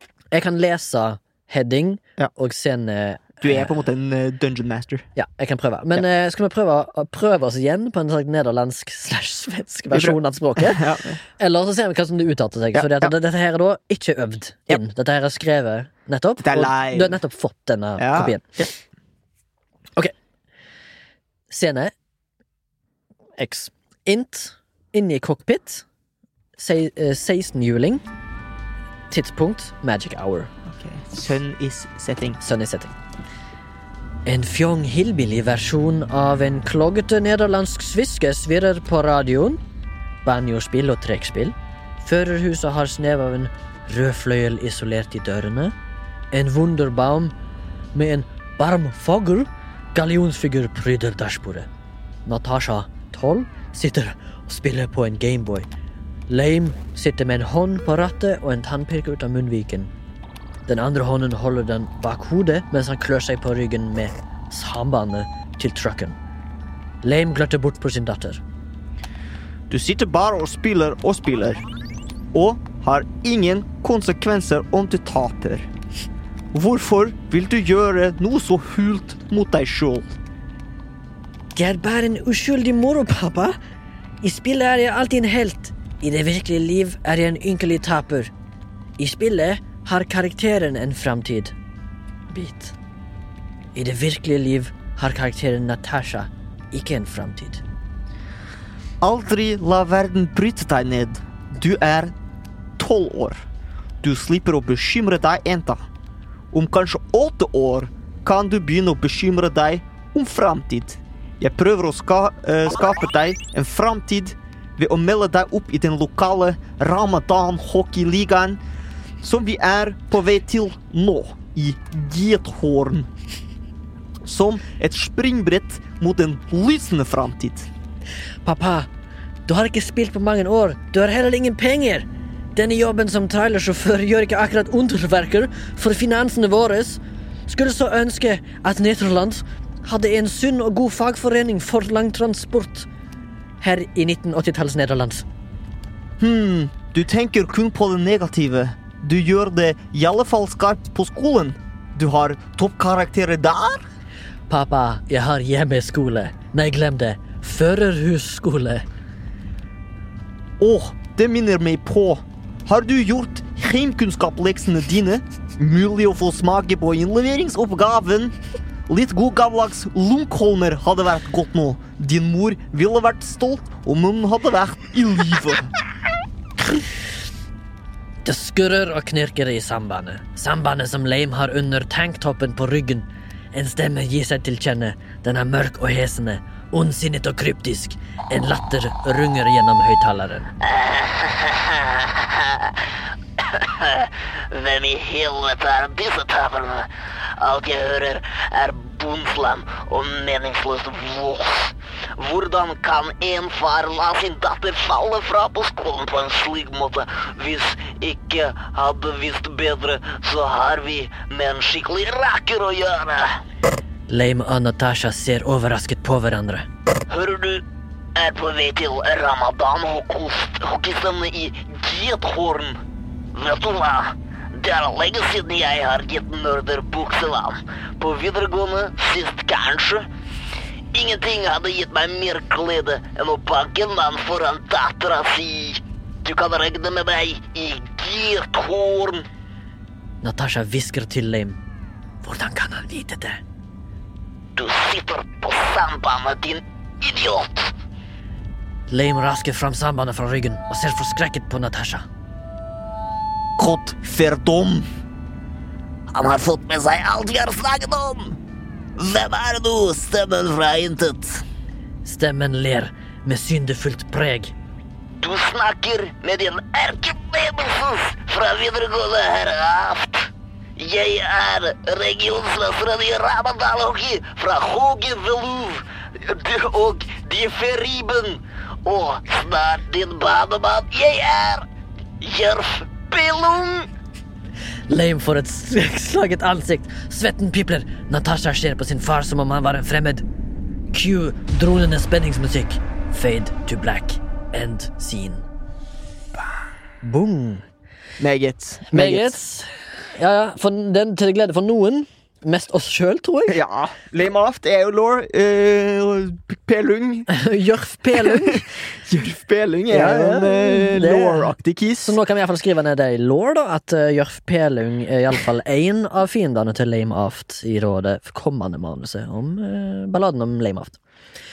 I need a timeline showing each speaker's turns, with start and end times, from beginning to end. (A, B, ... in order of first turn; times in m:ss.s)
0:00.3-0:03.8 A
0:03.4-0:05.0 B
0:05.2-0:10.8 A
0:09.9-0:11.2 B
0:11.4-0:18.4 A
0:12.7-0:13.1 B
0:16.4-0:17.2 B
0:18.0-0:18.7 B
0:21.5-0:21.9 A
0:23.4-0:25.8 A
0:26.6-0:28.0 A
0:29.1-0:30.5 A
0:30.6-0:32.4 B
0:32.4-0:32.9 A
0:34.2-0:39.6 A
0:40.2-0:45.7 A
0:46.3-0:47.3 A
0:47.9-0:51.7 A
0:52.2-0:55.7 A
0:56.3-0:59.9 A
1:00.7-1:06.2 A
1:07.0-1:08.4 A
1:09.7-1:11.6 B
1:12.3-1:15.7 B
1:16.5-1:20.2 B
1:21.5-1:23.6 A
1:24.2-1:28.3 A
1:29.0-1:31.5 A
1:32.3-1:32.8 A
1:33.7-1:37.6 A
1:39.0-1:42.1 B
1:42.8-1:43.4 B
1:44.0-1:45.8 B
1:46.5-1:58.6 B
1:59.2-2:03.1 B
2:04.2-2:07.7 B
2:08.4-2:08.9 A
2:09.5-2:22.9 A
2:23.6-2:25.2 A
2:26.2-2:33.8 B
2:34.5-2:38.8 A
2:40.6-2:48.4 B
2:48.9-2:55.7 B
2:58.2-3:10.5 A
3:10.8-3:12.7 C
3:13.9-3:16.8 C
3:17.4-3:33.2 C
3:24.4-3:25.0 B
3:34.1-3:36.7 A
3:37.1-3:37.6 C
3:38.2-3:42.7 C
3:41.5-3:42.4 B
3:43.3-3:50.0 C
3:46.7-3:47.5 B
3:48.0-3:49.5 B
3:50.9-3:59.2 C
3:52.8-3:53.2 B
3:53.8-3:55.3 B
3:56.7-3:57.4 B
3:58.0-3:59.0 B
4:00.2-4:01.6 A
4:02.2-4:03.4 A
4:04.6-4:07.5 C
4:08.9-4:12.0 A
4:13.6-4:14.8 B
4:16.1-4:18.1 B
4:16.5-4:18.3 C
4:19.0-4:21.3 B
4:19.4-4:20.9 C
4:22.0-4:24.5 A
4:25.2-4:30.2 C
4:30.8-4:35.8 C
4:36.2-4:38.0 B
4:36.8-4:41.6 C
4:38.9-4:39.6 B
4:42.2-4:43.5 C
4:42.2-4:43.8 B
4:44.9-4:50.2 A
4:50.9-4:55.4 A
4:57.0-4:57.6 A
4:58.2-4:59.4 B
4:58.9-5:03.6 A
5:03.5-5:07.3 B
5:07.3-5:08.7 A
5:08.1-5:12.2 B
5:09.9-5:21.0 A